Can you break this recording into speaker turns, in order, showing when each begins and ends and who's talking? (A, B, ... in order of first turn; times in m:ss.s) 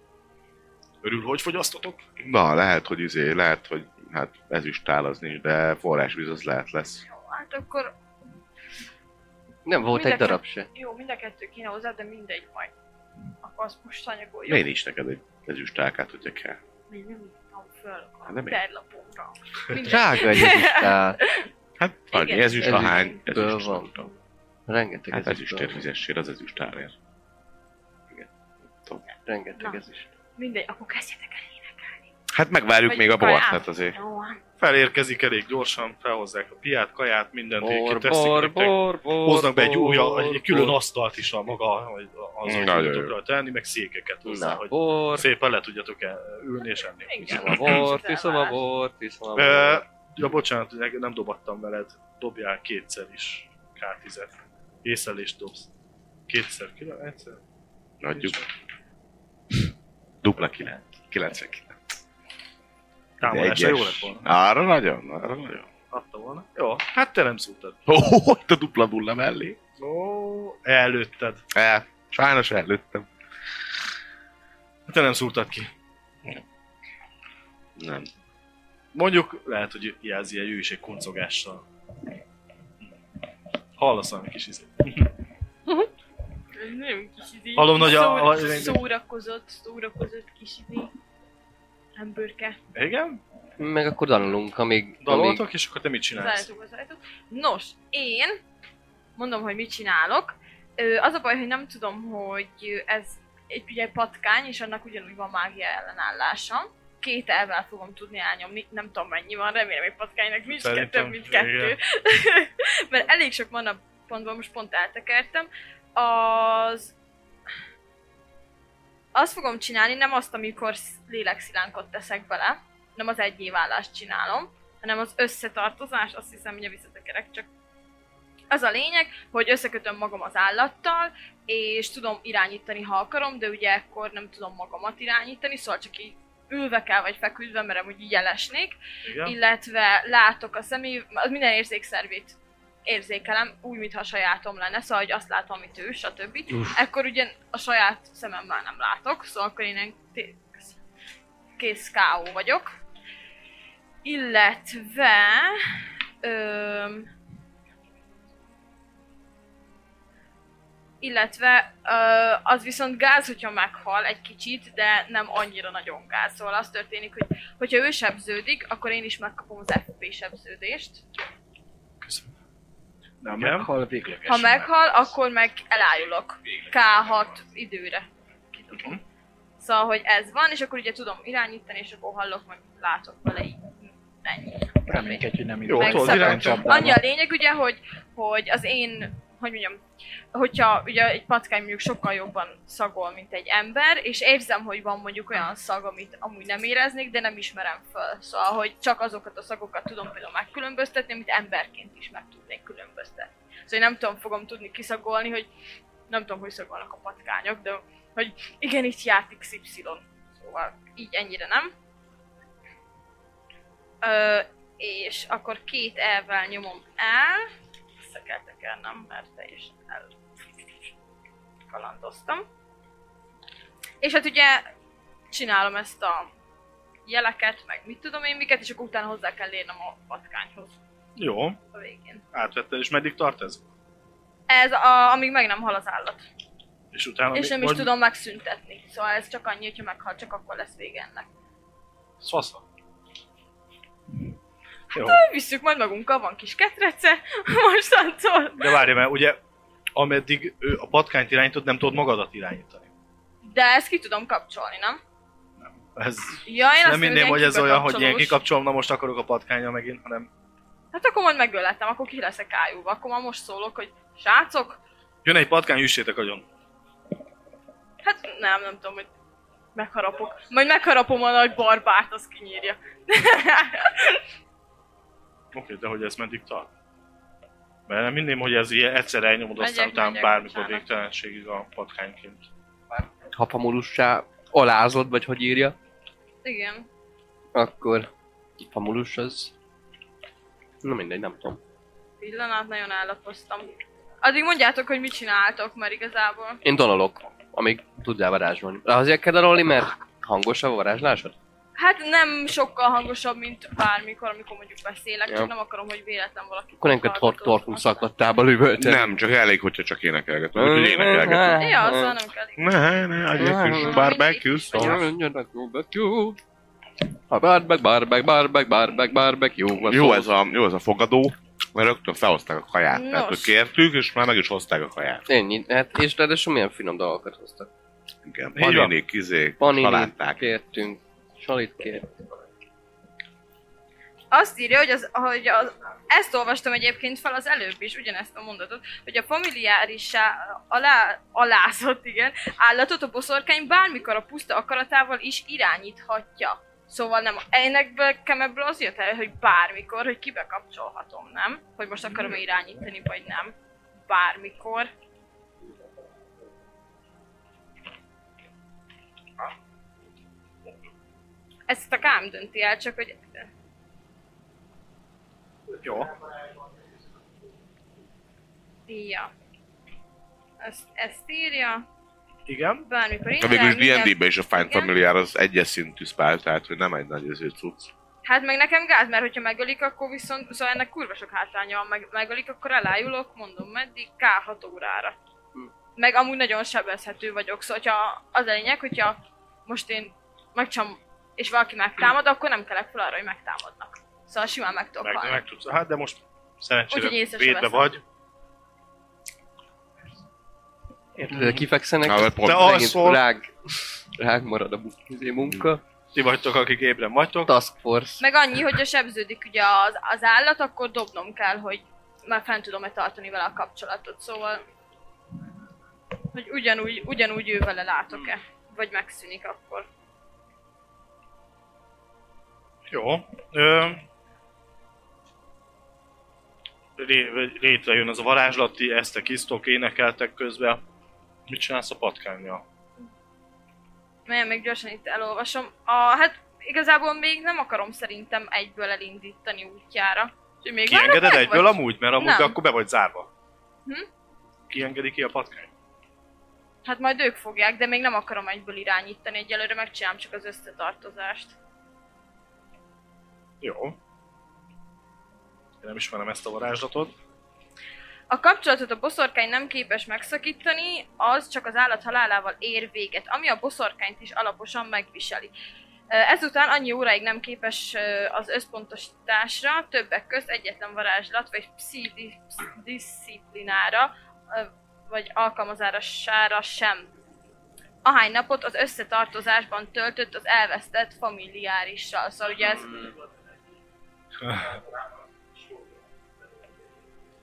0:01.0-0:02.0 A
0:02.2-0:07.0 B
0:07.1-0:07.9 C
0:09.7-0:10.7 D
0:09.9-0:12.7 C
0:13.4-0:14.6 C
0:14.5-0:16.6 B
0:16.9-0:21.5 C
0:18.3-0:18.6 B
0:19.8-0:21.2 D
0:21.8-0:24.1 B
0:22.1-0:23.2 C
0:22.6-0:24.0 D
0:24.7-0:25.8 D
0:25.1-0:26.9 B
0:29.2-0:30.1 D
0:30.4-0:32.1 C
0:32.3-0:34.0 B
0:32.9-0:34.4 C
0:34.6-0:47.8 A
0:37.6-0:40.8 D
0:42.4-0:43.1 B
0:44.3-0:45.3 D
0:47.0-0:48.6 C
0:47.2-0:49.8 D
0:49.4-0:55.7 A
0:56.3-0:57.4 A
0:58.0-0:58.4 B
0:58.2-0:58.5 A
1:00.2-1:01.8 B
1:03.2-1:04.3 A
1:03.2-1:05.7 B
1:05.9-1:07.8 A
1:07.9-1:09.6 B
1:09.8-1:11.4 A
1:11.5-1:13.1 B
1:14.9-1:15.7 A
1:17.8-1:18.1 B
1:18.9-1:21.6 A
1:23.8-1:25.1 A
1:26.5-1:30.9 C
1:27.6-1:28.8 A
1:32.0-1:32.6 C
1:32.8-1:33.2 A
1:33.6-1:35.4 D
1:35.0-1:36.5 A
1:36.2-1:38.4 C
1:39.2-1:56.9 C
1:50.5-1:51.8 A
1:59.1-2:07.5 C
2:08.5-2:30.8 C
2:19.0-2:19.4 A
2:31.6-2:32.7 C
2:34.0-2:35.6 C
2:36.2-2:37.1 C
2:41.0-2:51.0 C
2:52.0-2:52.3 A
2:53.2-2:55.1 E
2:53.3-2:53.7 A
2:54.3-2:59.0 C
2:58.7-2:59.0 A
2:59.6-3:09.8 C
3:04.9-3:07.0 E
3:05.7-3:06.8 A
3:10.3-3:25.5 C
3:26.1-3:31.7 C
3:34.0-3:40.1 C
3:41.7-3:42.4 C
3:44.0-3:44.7 C
3:45.3-3:46.3 C
3:47.1-3:50.8 C
3:51.2-3:51.6 A
3:51.7-3:52.2 C
3:52.3-3:53.6 A
3:54.5-3:56.2 C
3:56.9-3:57.9 A
3:57.3-4:01.3 C
4:02.2-4:02.6 A
4:04.9-4:08.9 C
4:04.9-4:05.2 A
4:08.6-4:09.4 A
4:10.0-4:12.9 A
4:13.4-4:15.0 C
4:15.6-4:20.3 A
4:16.5-4:18.4 C
4:20.9-4:24.8 C
4:25.2-4:26.4 A
4:28.0-4:29.1 C
4:29.8-4:34.2 C
4:35.5-4:36.7 A
4:37.9-4:42.5 A
4:39.6-4:40.8 C
4:42.9-4:45.8 D
4:46.4-4:46.9 C
4:47.6-4:49.5 D
4:50.8-4:51.6 D
4:52.2-4:56.6 C
4:56.6-5:01.4 D
5:01.8-5:08.1 C
5:05.3-5:05.5 D
5:06.8-5:09.1 D
5:08.8-5:11.7 B
5:10.6-5:12.2 D
5:11.5-5:12.9 C
5:12.6-5:15.0 B
5:13.4-5:14.1 D
5:13.5-5:15.1 C
5:14.7-5:16.4 D
5:17.3-5:20.3 D
5:19.8-5:25.2 B
5:22.9-5:23.5 C
5:25.3-5:27.7 D
5:28.2-5:30.4 B
5:28.6-5:29.0 A
5:29.6-5:32.1 D
5:34.3-5:53.6 C
5:54.1-5:54.9 C
6:01.7-6:03.5 C
6:05.8-6:06.1 A
6:08.9-6:09.3 C
6:10.6-6:11.8 C
6:12.5-6:12.8 A
6:12.8-6:14.9 C
6:13.4-6:17.9 B
6:18.2-6:25.2 C
6:26.0-6:35.4 C
6:35.0-6:38.0 A
6:36.9-6:38.0 C
6:41.2-6:45.8 D
6:41.3-6:41.6 A
6:42.0-6:42.9 B
6:42.4-6:43.2 A
6:46.1-6:47.5 A
6:47.5-6:48.3 D
6:48.2-6:54.6 C
6:56.3-6:59.9 C
7:02.9-7:04.0 A
7:07.0-7:10.8 A
7:11.5-7:12.6 A
7:14.3-7:22.6 C
7:20.9-7:23.3 A
7:24.7-7:25.7 A
7:26.8-7:31.6 C
7:33.6-7:34.0 A
7:35.8-7:37.1 A
7:38.3-7:45.5 C
7:46.1-7:57.1 C
7:58.0-8:03.0 C